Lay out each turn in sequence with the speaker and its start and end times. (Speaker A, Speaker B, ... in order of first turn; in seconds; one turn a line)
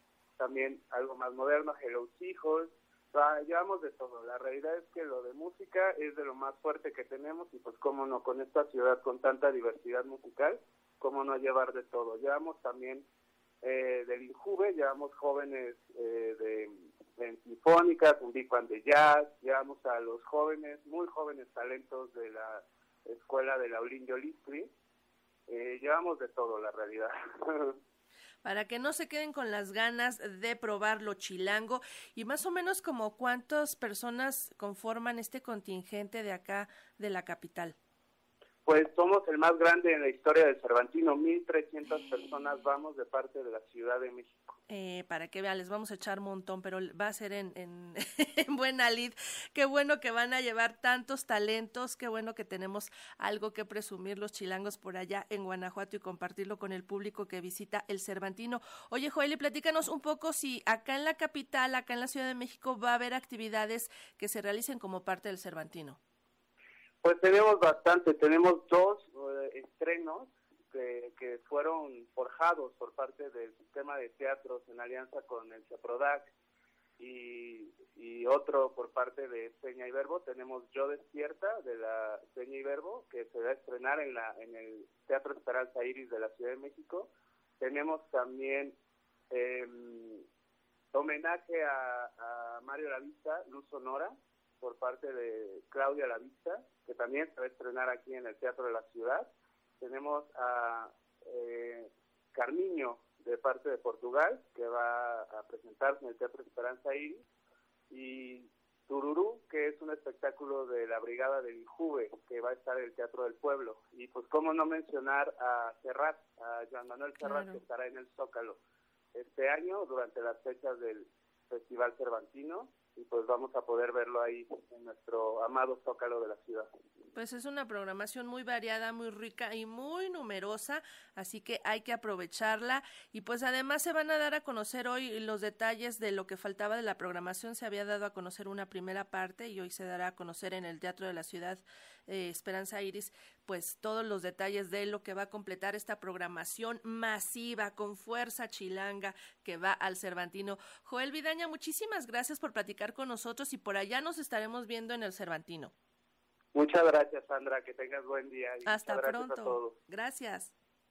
Speaker A: 0.4-13.1
Speaker A: 13.6-24.7
Speaker A: 25.5-27.8
Speaker B: 28.4-37.7
Speaker A: 38.6-44.5
Speaker B: 44.7-66.0
Speaker A: 67.0-76.3
Speaker A: 77.0-87.1
Speaker A: 87.6-88.7
Speaker A: 89.3-90.2
Speaker A: 90.9-99.3
Speaker A: 99.8-107.2
Speaker A: 107.9-118.6
Speaker B: 117.2-117.6
Speaker A: 119.1-126.7
Speaker B: 127.1-155.7
Speaker A: 156.5-159.8
Speaker B: 158.7-160.5